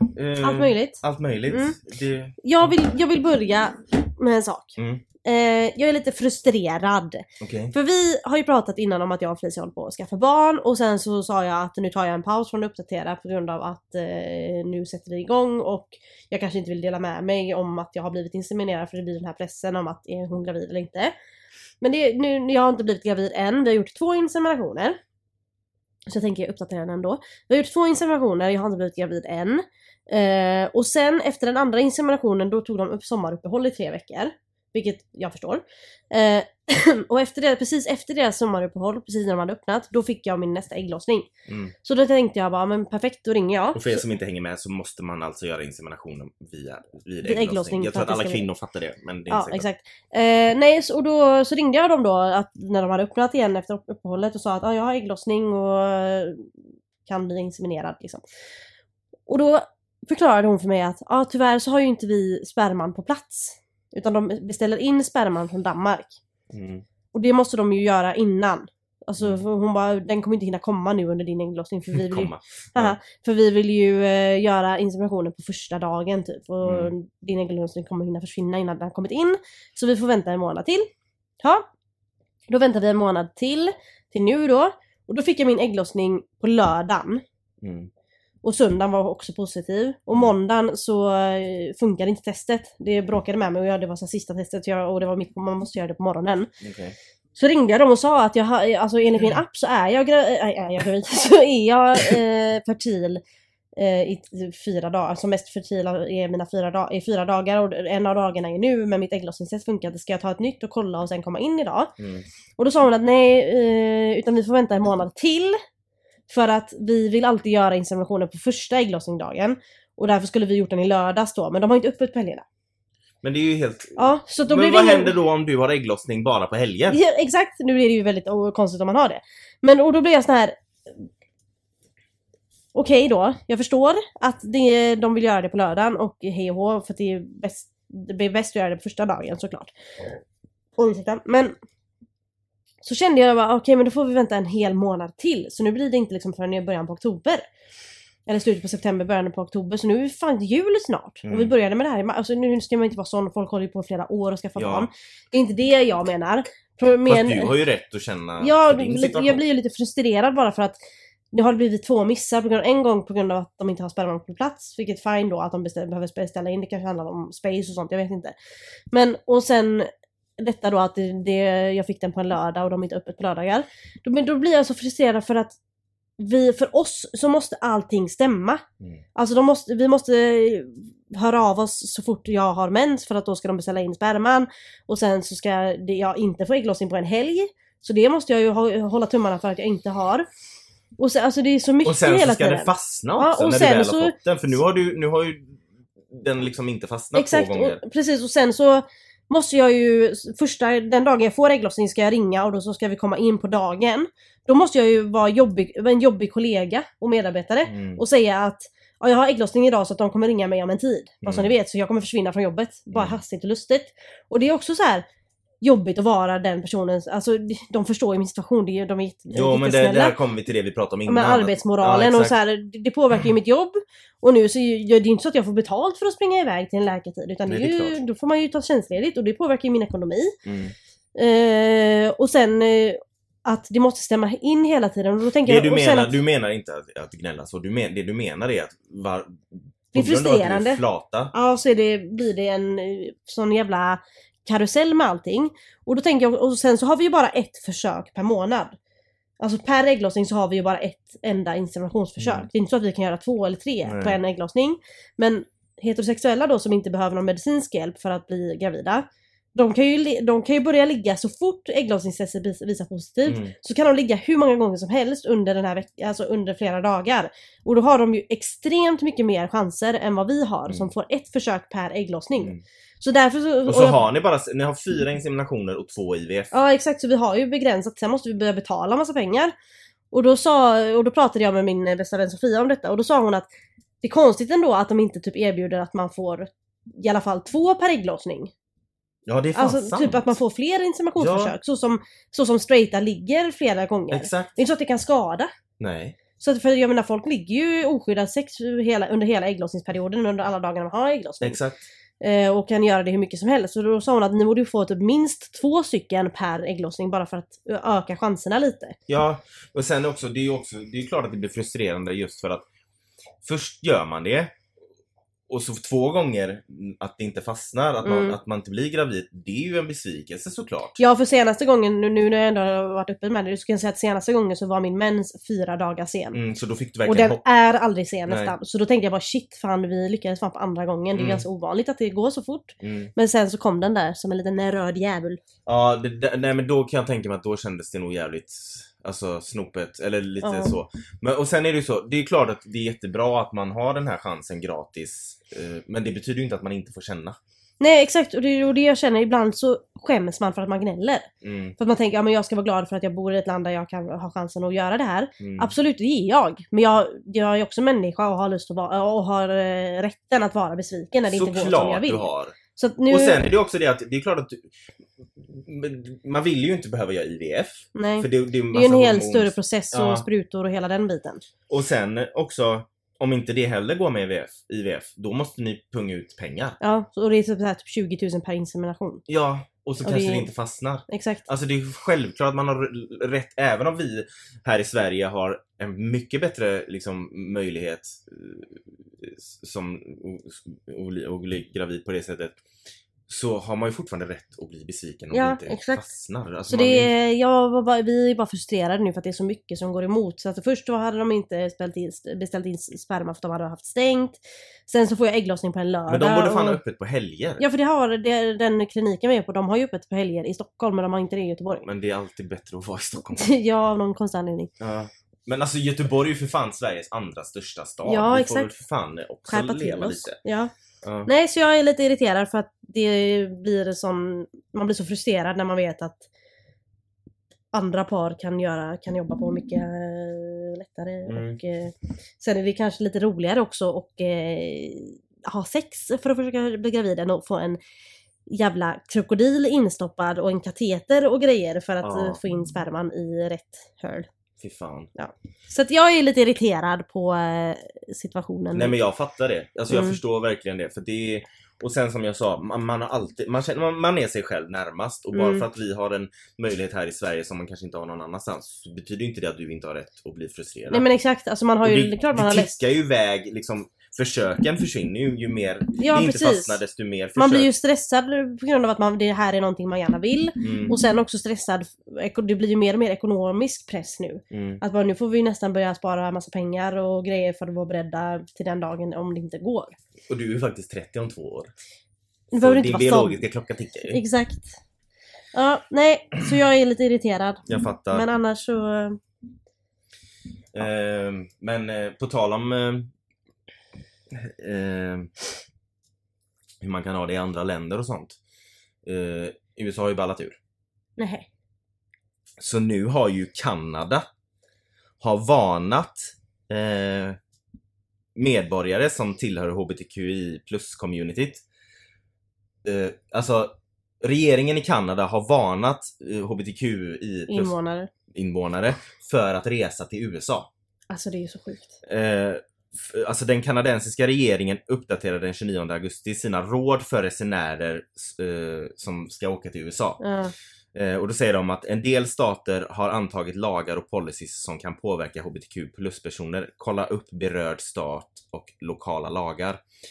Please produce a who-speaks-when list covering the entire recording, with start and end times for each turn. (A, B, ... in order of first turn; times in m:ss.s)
0:00.1-0:02.8 A
0:00.4-0:01.8 B
0:02.4-0:21.1 B
0:04.8-0:05.0 A
0:07.4-0:07.7 A
0:21.8-0:25.0 B
0:26.1-0:41.3 B
0:41.5-0:41.7 A
0:41.8-0:44.0 B
0:43.8-0:49.7 A
0:47.2-0:48.4 B
0:49.3-0:56.5 B
0:57.0-0:58.2 B
0:59.3-1:06.2 B
1:06.5-1:06.8 A
1:07.1-1:20.9 B
1:11.9-1:13.0 A
1:16.6-1:16.9 A
1:21.4-1:21.7 B
1:22.5-1:27.2 B
1:27.6-1:27.9 A
1:28.4-1:36.5 B
1:36.6-1:37.0 A
1:37.4-1:43.2 B
1:43.8-1:51.9 B
1:52.0-1:52.2 A
1:52.6-1:55.6 B
1:56.3-2:02.4 B
2:03.2-2:07.0 A
2:04.0-2:05.2 B
2:06.9-2:11.0 B
2:12.7-2:19.7 B
2:20.8-2:21.6 B
2:22.8-2:27.5 B
2:28.3-2:37.5 B
2:31.2-2:31.5 A
2:34.6-2:34.9 A
2:37.1-2:39.4 A
2:38.4-2:40.8 B
2:41.3-2:48.4 B
2:48.9-2:55.6 B
2:56.2-2:58.6 B
2:59.2-3:10.3 B
3:11.0-3:14.2 B
3:11.8-3:17.8 A
3:17.1-3:35.1 B
3:27.7-3:28.0 A
3:31.2-3:31.5 A
3:32.9-3:33.2 A
3:35.6-3:40.2 B
3:39.3-3:42.4 A
3:41.1-3:50.4 B
3:47.5-3:48.0 A
3:50.4-3:50.7 A
3:51.2-3:56.2 B
3:55.4-4:01.3 A
3:59.9-4:00.8 B
4:01.3-4:08.8 B
4:09.4-4:34.0 B
4:12.2-4:12.5 A
4:13.8-4:14.2 A
4:23.3-4:23.5 A
4:33.7-4:36.5 A
4:36.5-4:39.5 B
4:40.1-4:43.5 B
4:44.0-4:48.5 B
4:49.3-4:50.3 A
4:49.6-4:55.5 B
4:51.2-4:51.6 A
4:54.1-4:54.6 A
4:55.8-4:56.2 A
4:56.4-5:01.6 B
5:01.4-5:01.8 A
5:02.2-5:09.0 B
5:09.1-5:12.6 A
5:13.4-5:14.5 A
5:15.5-5:21.0 A
5:18.0-5:18.4 B
5:21.0-5:26.4 B
5:26.3-5:27.4 A
5:27.1-5:35.4 B
5:28.3-5:28.5 A
5:31.2-5:31.4 A
5:32.8-5:33.1 A
5:35.7-5:47.4 A
5:40.4-5:40.7 B
5:47.8-6:03.4 B
5:51.4-5:51.8 A
5:55.4-5:55.7 A
6:01.3-6:02.6 A
6:03.1-6:04.7 A
6:05.4-6:10.3 A
6:08.0-6:11.4 B
6:11.7-6:16.8 A
6:16.8-6:19.2 B
6:19.3-6:32.6 A
6:20.0-6:20.5 B
6:21.1-6:21.4 B
6:33.3-6:37.1 A
6:35.3-6:36.0 B
6:36.7-6:46.8 B
6:46.1-6:47.6 A
6:47.6-6:51.8 B
6:51.8-6:53.5 A
6:53.4-6:54.7 B
6:54.8-7:00.4 A
6:58.0-6:58.8 B
6:59.5-7:00.7 B
7:01.0-7:01.3 A
7:01.3-7:06.3 B
7:07.7-7:17.8 B
7:11.3-7:11.6 A
7:18.5-7:24.3 B
7:22.0-7:22.4 A
7:24.6-7:25.1 A
7:25.2-7:29.0 B
7:28.7-7:41.1 A
7:29.9-7:30.2 B
7:35.3-7:35.6 B
7:40.9-7:42.8 B
7:41.8-7:47.7 A
7:46.0-7:46.8 B
7:47.4-8:00.0 B
7:50.6-7:51.0 A
7:54.5-7:54.8 A
8:00.3-8:01.7 A
8:02.5-8:03.4 B
8:02.6-8:04.2 A
8:04.1-8:04.8 B
8:05.5-8:09.2 B
8:07.7-8:08.3 A
8:10.7-8:13.1 A
8:14.3-8:15.3 A
8:16.8-8:18.4 A
8:19.0-8:20.6 A
8:21.2-8:21.5 B
8:22.6-8:24.3 A
8:25.2-8:27.4 A
8:28.4-8:31.6 A
8:32.8-8:37.7 A
8:37.5-8:38.1 B
8:38.3-8:40.7 A
8:41.1-8:42.0 B
8:42.0-8:50.2 A
8:50.2-8:50.5 B
8:50.9-8:59.8 A